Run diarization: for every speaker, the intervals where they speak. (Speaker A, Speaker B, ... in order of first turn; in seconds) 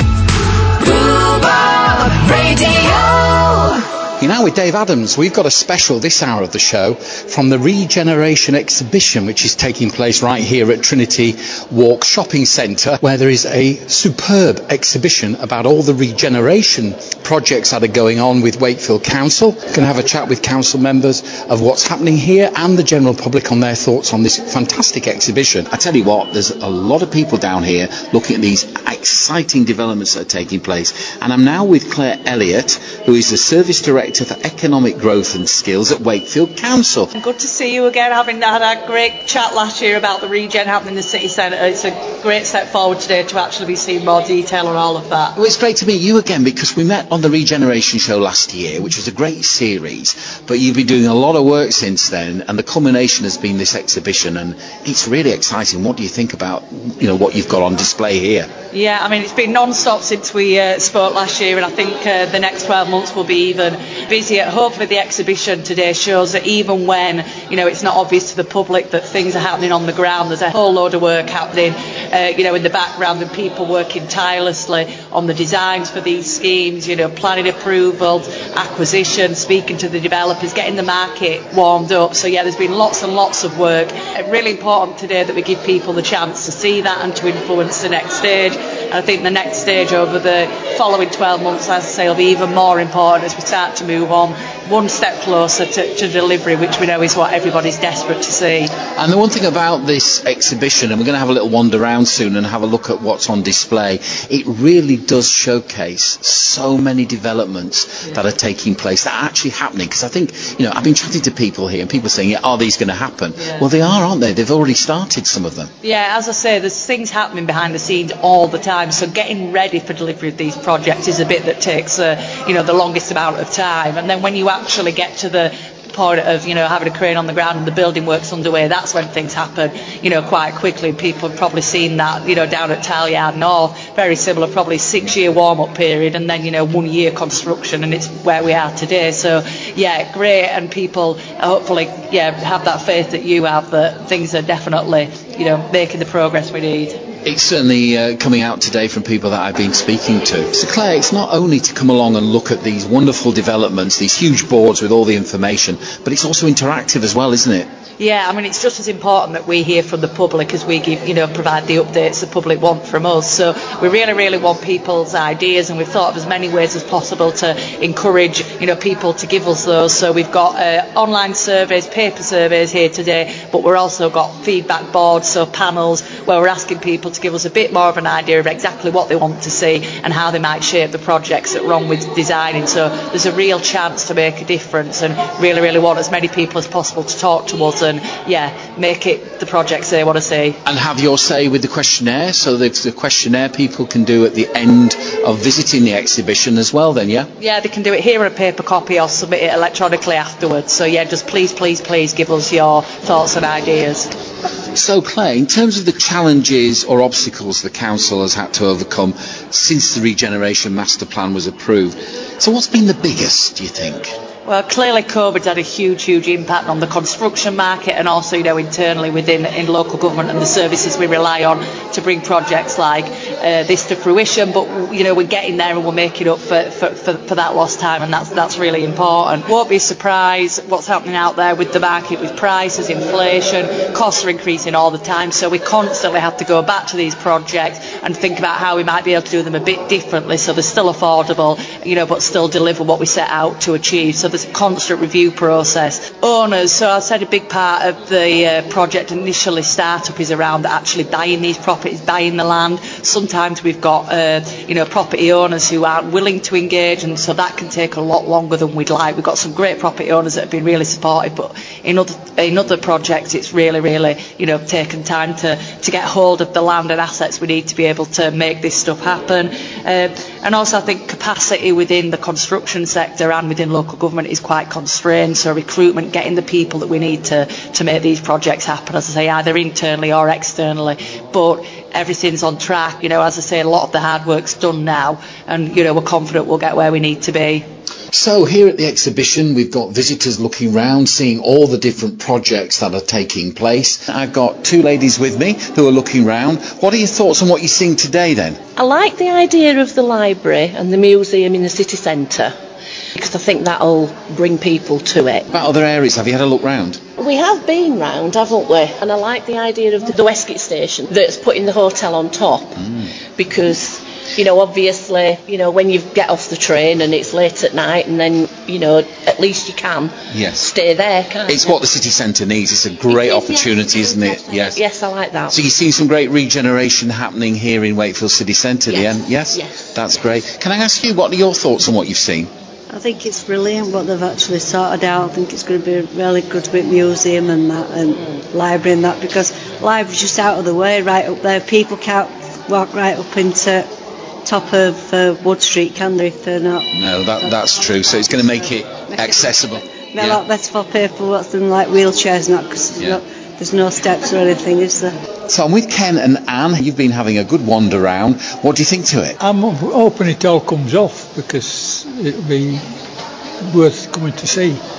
Speaker A: 1.3-37.1, 45.4-58.5, 99.0-115.7, 147.2-157.7, 190.7-197.3, 204.7-214.2, 288.1-298.6, 305.5-307.0, 320.3-320.7, 321.5-324.8, 325.5-332.5, 346.9-350.4, 355.5-359.4
Speaker B: 37.1-45.4, 58.7-98.7, 115.8-147.0, 158.0-190.6, 197.4-204.1, 214.5-287.6
Speaker C: 298.8-302.5, 303.1-305.5, 307.2-312.8, 313.4-321.8, 323.1-325.6, 328.9-329.7
Speaker D: 332.9-343.9, 344.5-346.9, 350.1-355.1
Speaker E: 359.4-362.8, 363.6-364.8